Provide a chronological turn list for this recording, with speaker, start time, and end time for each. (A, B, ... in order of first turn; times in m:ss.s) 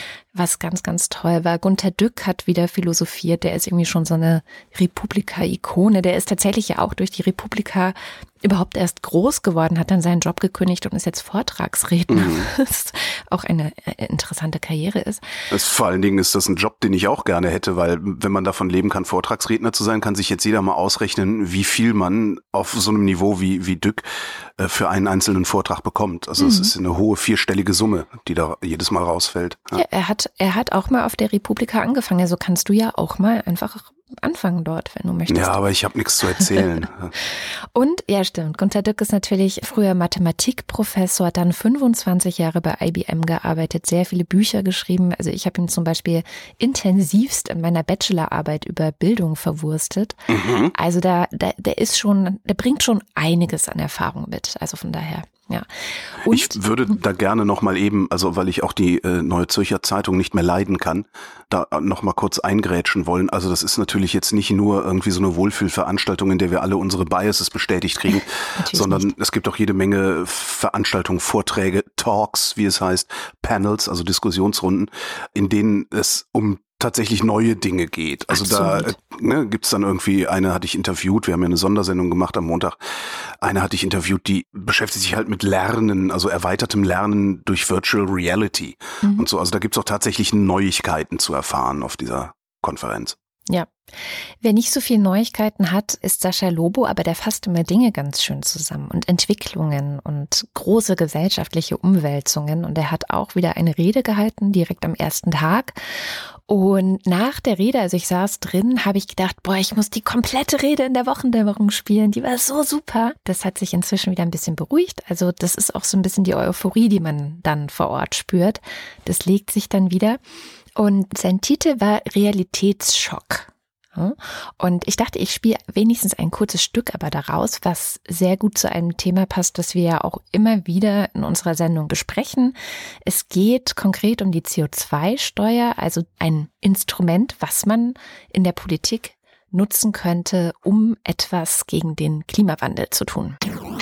0:00.3-0:15.3 A
0:12.1-0:12.5 B
0:15.5-0:24.0 B
0:24.6-0:29.8 B
0:26.4-0:26.7 A
0:29.7-0:35.6 A
0:35.3-0:37.1 B
0:37.7-0:56.6 A
0:50.3-0:50.7 B
0:56.2-1:22.8 B
1:08.5-1:09.1 A
1:18.3-1:18.9 A
1:23.4-1:33.2 B
1:29.0-1:29.3 A
1:34.4-2:00.2 A
2:00.8-2:23.4 A